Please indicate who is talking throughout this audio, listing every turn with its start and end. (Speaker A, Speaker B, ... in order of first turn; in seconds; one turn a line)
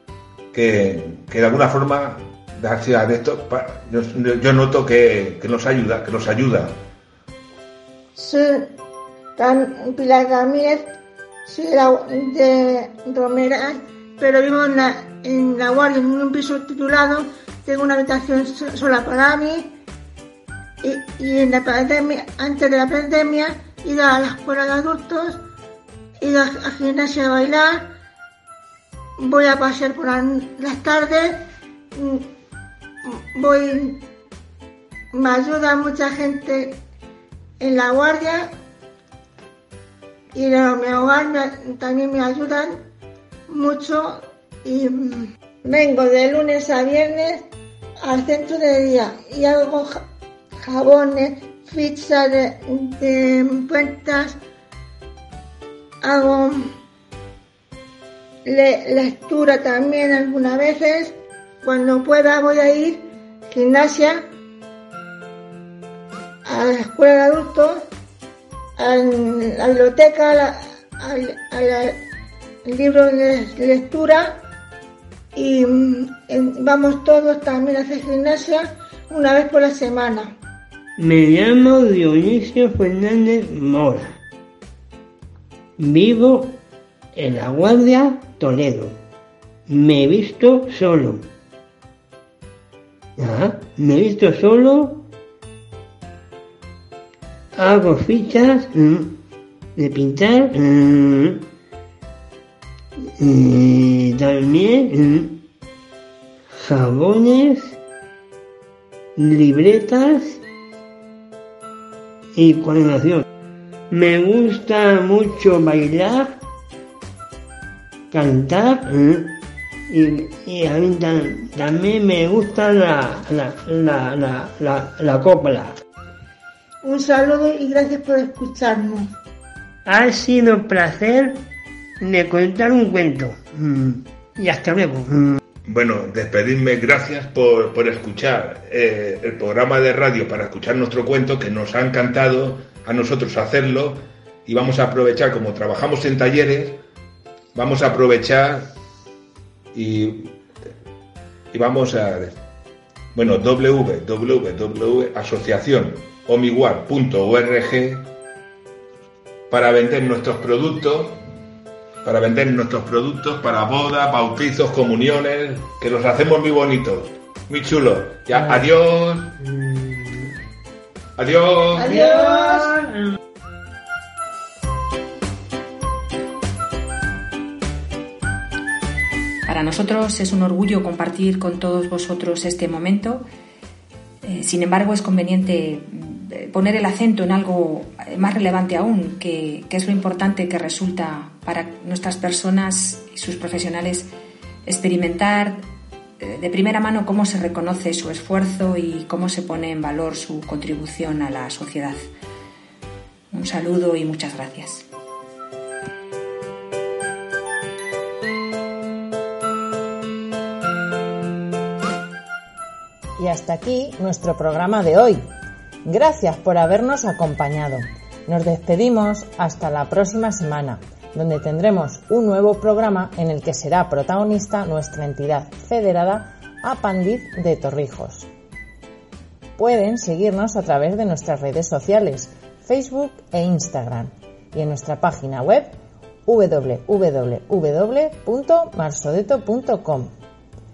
Speaker A: 0.5-6.8
Speaker B: 8.2-8.7
Speaker B: 9.4-10.9
Speaker B: 11.4-19.7
Speaker B: 20.8-25.4
Speaker B: 26.2-27.9
Speaker B: 29.2-31.4
Speaker B: 31.9-32.3
Speaker B: 33.0-34.0
Speaker B: 35.1-36.8
Speaker B: 37.6-38.5
Speaker B: 40.3-42.8
Speaker B: 43.5-47.5
Speaker B: 48.0-50.1
Speaker B: 50.6-54.4
Speaker B: 56.0-56.7
Speaker B: 58.5-64.3
Speaker B: 66.5-67.9
Speaker B: 68.8-72.0
Speaker B: 72.7-74.4
Speaker B: 75.3-80.4
Speaker C: 81.0-84.2
Speaker C: 85.8-86.6
Speaker C: 87.1-89.0
Speaker C: 89.7-91.3
Speaker C: 93.2-95.1
Speaker C: 97.5-99.2
Speaker C: 99.8-101.5
Speaker C: 103.2-105.4
Speaker C: 106.5-107.8
Speaker C: 109.2-110.4
Speaker C: 112.4-113.3
Speaker C: 113.9-116.4
Speaker C: 118.1-125.8
Speaker B: 126.8-129.1
Speaker C: 129.8-131.5
Speaker C: 132.0-135.4
Speaker A: 135.7-146.8
Speaker A: 147.6-148.8
Speaker A: 149.7-150.3
Speaker A: 151.5-152.4
Speaker A: 153.1-158.1
Speaker A: 159.5-161.2
Speaker A: 162.0-169.3
Speaker C: 169.4-170.3
Speaker A: 171.2-171.9
Speaker B: 171.8-172.8
Speaker C: 171.8-173.0
Speaker D: 179.5-183.3
Speaker D: 184.2-194.1
Speaker D: 194.7-195.6
Speaker D: 196.2-202.1
Speaker D: 203.3-204.9
Speaker E: 213.2-215.2
Speaker E: 215.8-228.3
Speaker E: 229.6-235.8
Speaker E: 236.3-240.1